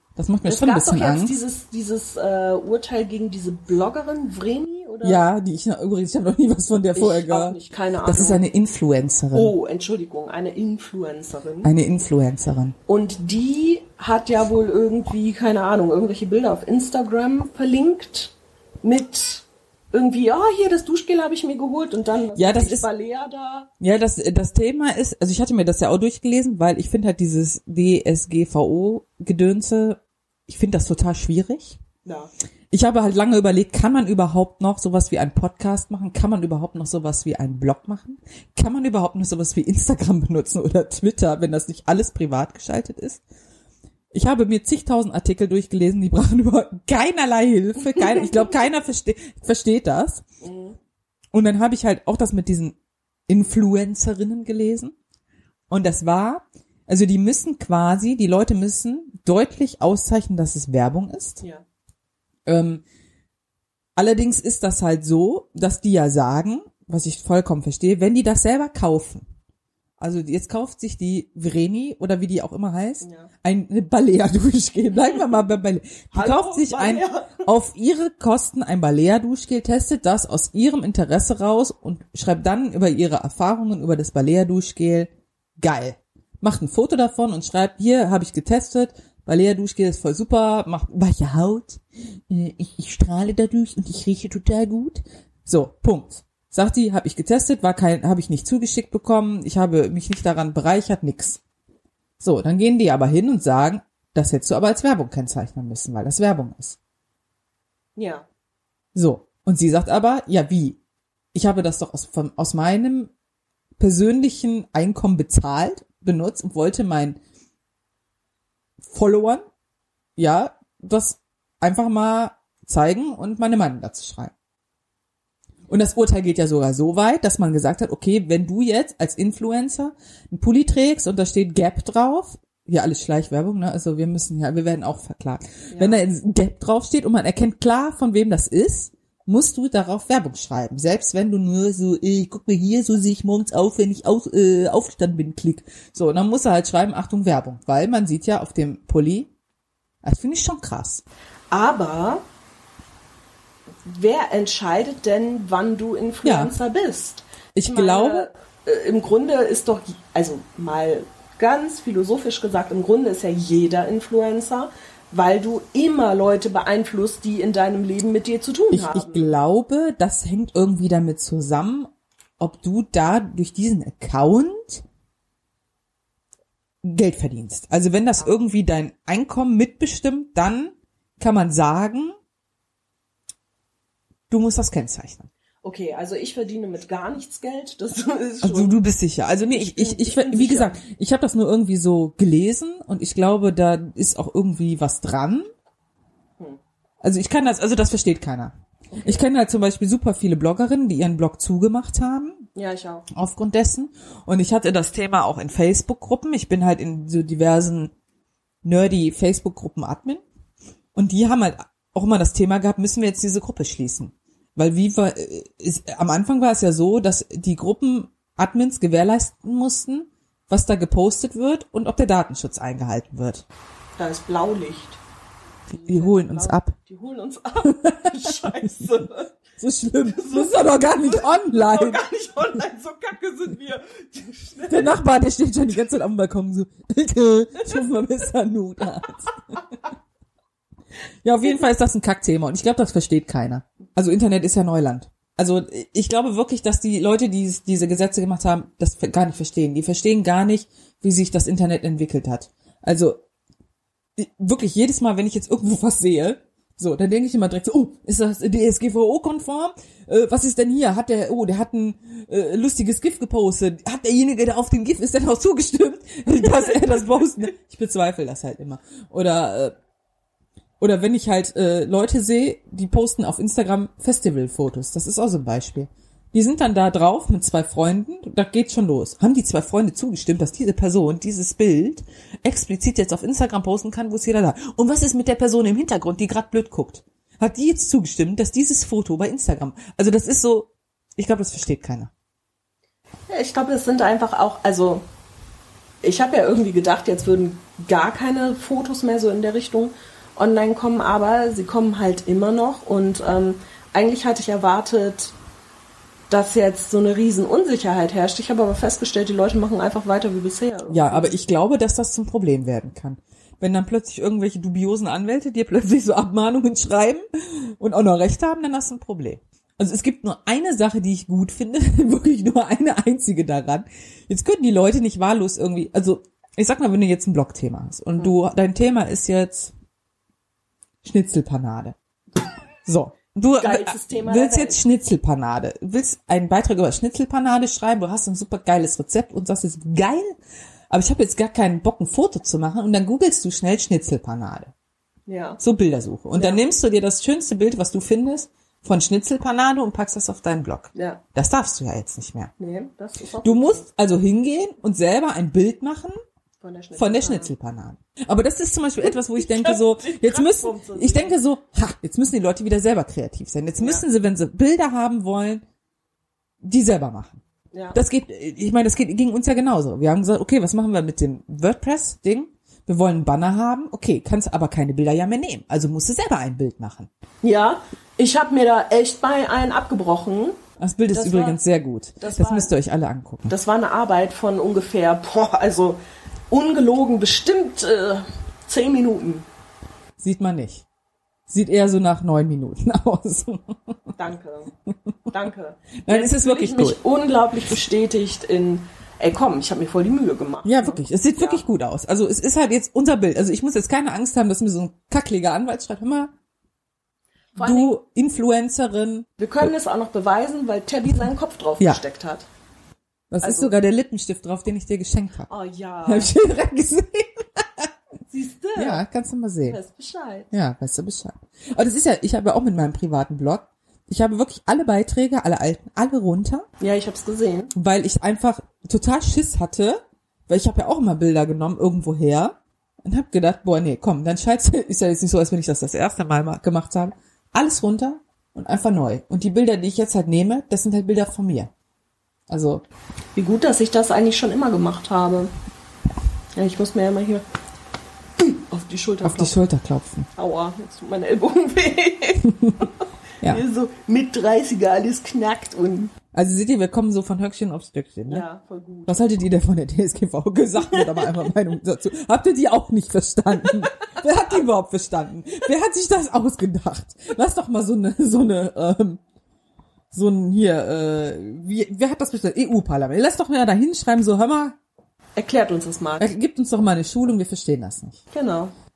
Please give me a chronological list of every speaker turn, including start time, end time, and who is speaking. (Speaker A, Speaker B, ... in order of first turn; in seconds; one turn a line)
Speaker A: 0.2-1.4
Speaker B: 0.5-5.2
Speaker A: 5.0-9.5
Speaker B: 7.0-8.4
Speaker B: 9.3-11.7
Speaker A: 11.6-12.8
Speaker B: 12.9-23.7
Speaker A: 22.4-22.9
Speaker A: 23.8-31.8
Speaker B: 32.0-32.3
Speaker A: 32.7-43.2
Speaker A: 44.1-50.2
Speaker B: 50.4-50.8
Speaker A: 51.3-52.8
Speaker A: 53.3-54.9
Speaker A: 55.7-61.4
Speaker A: 62.5-62.8
Speaker A: 64.0-69.3
Speaker A: 70.0-101.4
Speaker B: 73.0-73.3
Speaker B: 76.1-77.5
Speaker A: 102.2-106.8
Speaker B: 108.0-108.3
Speaker A: 109.0-110.8
Speaker A: 111.3-113.1
Speaker A: 113.8-117.2
Speaker A: 118.8-119.4
Speaker A: 120.2-124.3
Speaker A: 125.7-149.3
Speaker B: 135.7-136.0
Speaker A: 150.0-151.0
Speaker B: 151.5-152.2
Speaker B: 153.8-169.3
Speaker A: 156.2-156.5
Speaker A: 157.6-158.3
Speaker A: 168.7-174.8
Speaker A: 176.8-182.2
Speaker A: 184.3-185.3
Speaker B: 185.6-188.8
Speaker A: 188.4-195.5
Speaker B: 189.5-190.8
Speaker A: 197.0-198.5
Speaker B: 198.9-199.3
Speaker A: 199.1-202.4
Speaker B: 202.6-203.1
Speaker A: 203.1-207.9
Speaker A: 208.6-210.2
Speaker A: 210.9-223.4
Speaker B: 224.0-225.0
Speaker B: 225.7-229.4
Speaker A: 225.8-226.8
Speaker A: 227.7-228.7
Speaker A: 229.6-232.0
Speaker B: 230.0-235.0
Speaker A: 234.7-239.4
Speaker A: 241.2-253.2
Speaker A: 254.2-269.7
Speaker B: 266.6-267.3
Speaker A: 270.8-292.1
Speaker B: 293.3-295.0
Speaker B: 296.0-305.4
Speaker B: 306.3-311.4
Speaker A: 310.9-329.7
Speaker A: 331.0-332.0
Speaker A: 332.9-340.3
Speaker B: 333.6-334.8
Speaker A: 340.9-344.7
Speaker B: 345.3-345.6
Speaker A: 345.6-352.5
Speaker B: 346.4-346.6
Speaker B: 350.9-351.2
Speaker B: 352.6-353.9
Speaker A: 353.4-356.1
Speaker B: 356.6-357.5
Speaker A: 357.0-365.6
Speaker B: 359.0-361.4
Speaker B: 363.8-364.1
Speaker A: 366.6-367.4
Speaker B: 367.7-368.0
Speaker A: 367.9-377.1
Speaker B: 377.4-380.6
Speaker A: 380.8-383.5
Speaker B: 381.1-381.6
Speaker B: 382.2-382.7
Speaker B: 383.5-386.0
Speaker B: 386.5-389.5
Speaker A: 390.2-390.9
Speaker A: 391.5-394.0
Speaker B: 394.2-394.7
Speaker B: 395.3-401.6
Speaker A: 396.0-397.0
Speaker A: 400.6-406.3
Speaker B: 407.6-408.0
Speaker A: 407.6-409.3
Speaker B: 409.4-412.5
Speaker A: 413.3-415.5
Speaker B: 413.4-413.7
Speaker B: 415.5-416.3
Speaker A: 416.1-417.9
Speaker B: 418.3-419.0
Speaker A: 418.8-419.8
Speaker B: 419.7-420.5
Speaker A: 420.5-426.7
Speaker B: 426.8-427.7
Speaker A: 427.8-441.7
Speaker A: 442.5-442.8
Speaker B: 443.4-445.5
Speaker B: 446.6-447.4
Speaker B: 448.4-449.6
Speaker A: 449.2-450.3
Speaker B: 450.4-452.9
Speaker A: 452.4-452.8
Speaker B: 453.4-456.1
Speaker A: 456.3-458.4
Speaker B: 458.3-459.3
Speaker A: 459.1-469.2
Speaker B: 460.8-461.4
Speaker B: 463.6-464.2
Speaker A: 470.1-474.8
Speaker B: 475.4-476.3
Speaker A: 476.2-478.2
Speaker B: 478.3-478.7